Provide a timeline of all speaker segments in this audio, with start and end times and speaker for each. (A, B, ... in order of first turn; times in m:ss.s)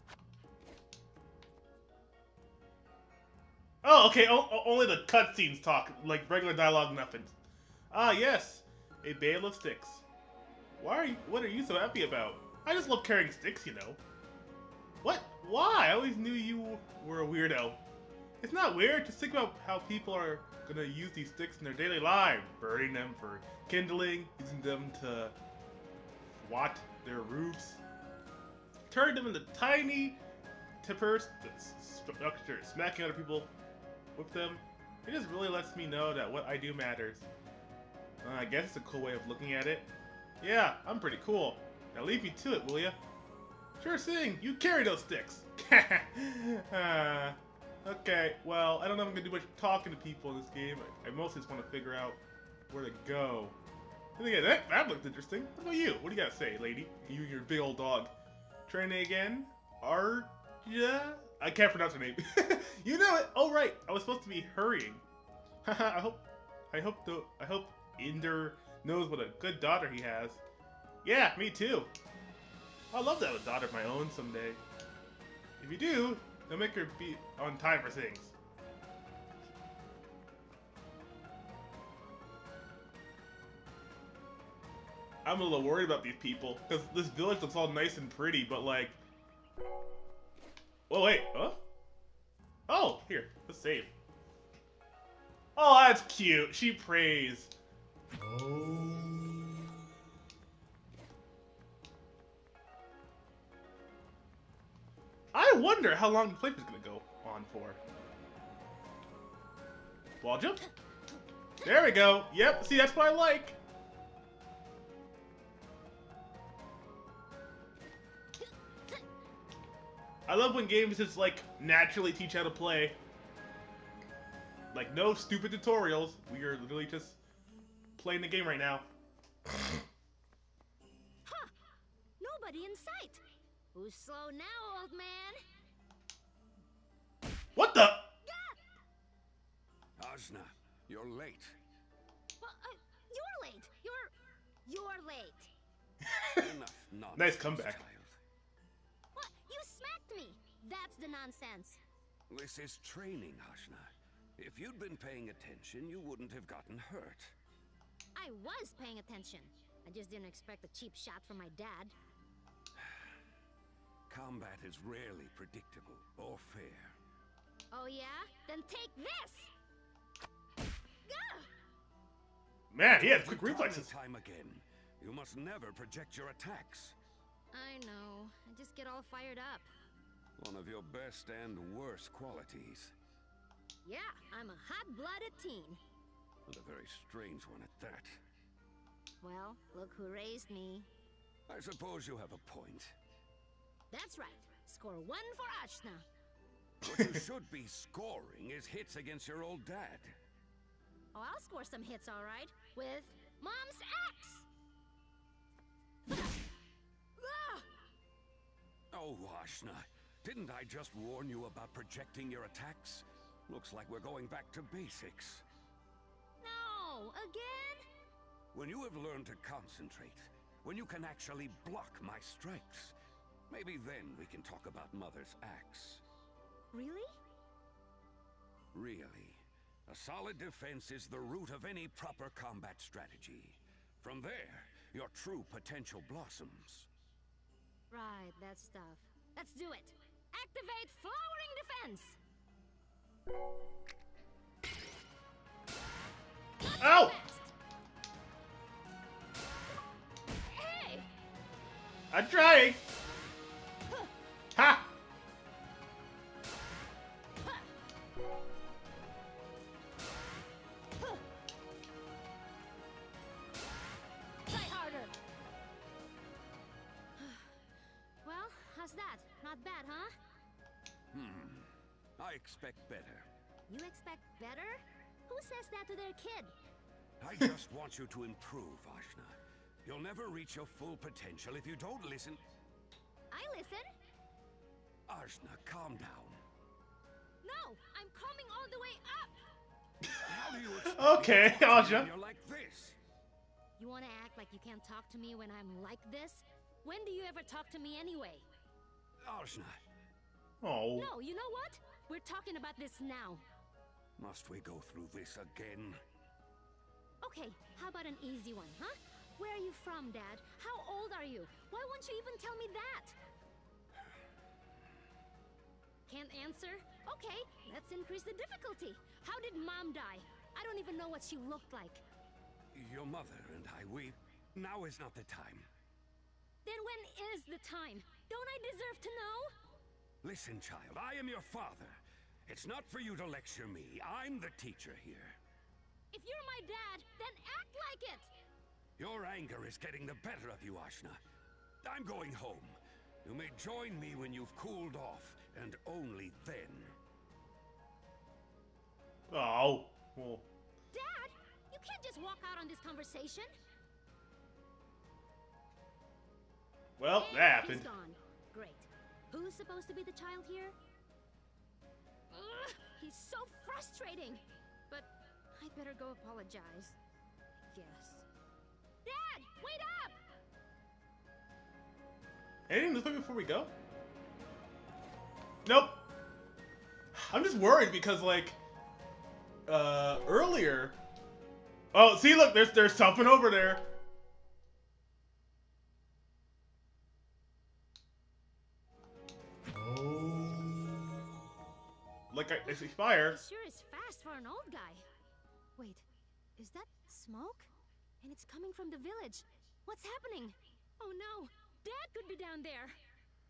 0:03.8-0:07.3 A
0:07.9-0:10.0 A
0:10.8-0:14.0 A
0:15.0-0:17.8 A
0:18.4-0:25.4 A
0:26.4-0:27.8 A
0:28.9-0:30.2 A
0:30.8-0:33.5 A
0:34.1-0:37.3 A
0:38.2-0:39.9 A
0:40.4-0:43.0 A
0:43.8-0:53.6 A
0:54.2-0:58.1 A
0:58.7-1:05.0 A
1:05.6-1:10.4 A
1:11.0-1:11.9 A
1:12.9-1:14.6 A
1:15.6-1:18.3 A
1:25.2-1:29.0 A
1:30.9-1:31.6 A
1:32.7-1:33.9 A
1:35.6-1:37.5 A
1:45.3-1:47.8 A
1:50.2-1:50.6 A
1:51.6-1:53.6 A
2:00.3-2:03.0 A
2:04.7-2:07.2 A
2:08.0-2:08.9 A
2:11.2-2:11.5 B
2:12.2-2:13.2 B
2:13.7-2:15.4 B
2:17.5-2:18.1 A
2:18.2-2:18.6 B
2:20.0-2:21.6 C
2:22.4-2:24.1 B
2:24.6-2:25.5 B
2:26.4-2:28.2 C
2:27.2-2:27.8 A
2:29.1-2:31.8 B
2:32.3-2:37.4 C
2:38.1-2:41.9 B
2:44.1-2:47.0 C
2:47.7-2:49.5 B
2:51.1-2:51.5 B
2:52.7-2:53.9 A
2:52.8-2:57.0 C
2:57.5-2:59.7 B
3:00.4-3:02.9 C
3:03.8-3:05.8 B
3:06.4-3:08.2 C
3:09.2-3:10.9 B
3:11.5-3:12.9 C
3:13.9-3:16.0 B
3:16.8-3:20.1 C
3:21.1-3:24.4 B
3:27.2-3:27.6 B
3:28.9-3:35.4 C
3:36.4-3:37.8 B
3:38.5-3:42.9 C
3:43.5-3:46.0 C
3:46.7-3:47.1 B
3:48.7-3:56.9 C
3:57.9-4:02.2 B
4:06.6-4:07.5 B
4:06.8-4:07.1 A
4:10.4-4:11.1 B
4:12.1-4:12.8 A
4:14.5-4:14.9 A
4:24.4-4:25.1 B
4:27.2-4:27.5 B
4:28.2-4:30.1 B
4:31.1-4:33.3 C
4:33.7-4:36.5 B
4:37.2-4:42.4 C
4:43.3-4:43.9 B
4:45.1-4:46.4 C
4:47.4-4:49.4 B
4:50.2-4:53.0 C
4:50.7-4:52.1 A
4:53.8-4:58.4 B
4:59.2-4:59.8 C
5:00.6-5:01.1 A
5:00.9-5:03.4 B
5:04.2-5:06.0 C
5:07.2-5:13.2 B
5:16.1-5:22.0 B
5:22.7-5:25.7 C
5:26.6-5:29.5 B
5:30.2-5:35.4 C
5:36.1-5:38.3 B
5:39.0-5:41.2 C
5:41.8-5:47.0 C
5:49.3-5:50.4 A
5:50.9-5:53.5 B
5:57.0-5:57.9 A
5:57.1-6:00.7 B
6:02.3-6:07.0 B
6:07.7-6:08.2 B
6:09.0-6:10.2 B
6:12.7-6:13.7 A
6:15.6-6:16.0 A
6:17.1-6:18.6 A
6:19.7-6:21.0 A
6:21.9-6:23.8 A
6:32.3-6:33.4 A
6:32.7-6:35.0 B
6:35.8-6:36.0 B
6:36.6-6:37.7 B
6:38.2-6:43.0 B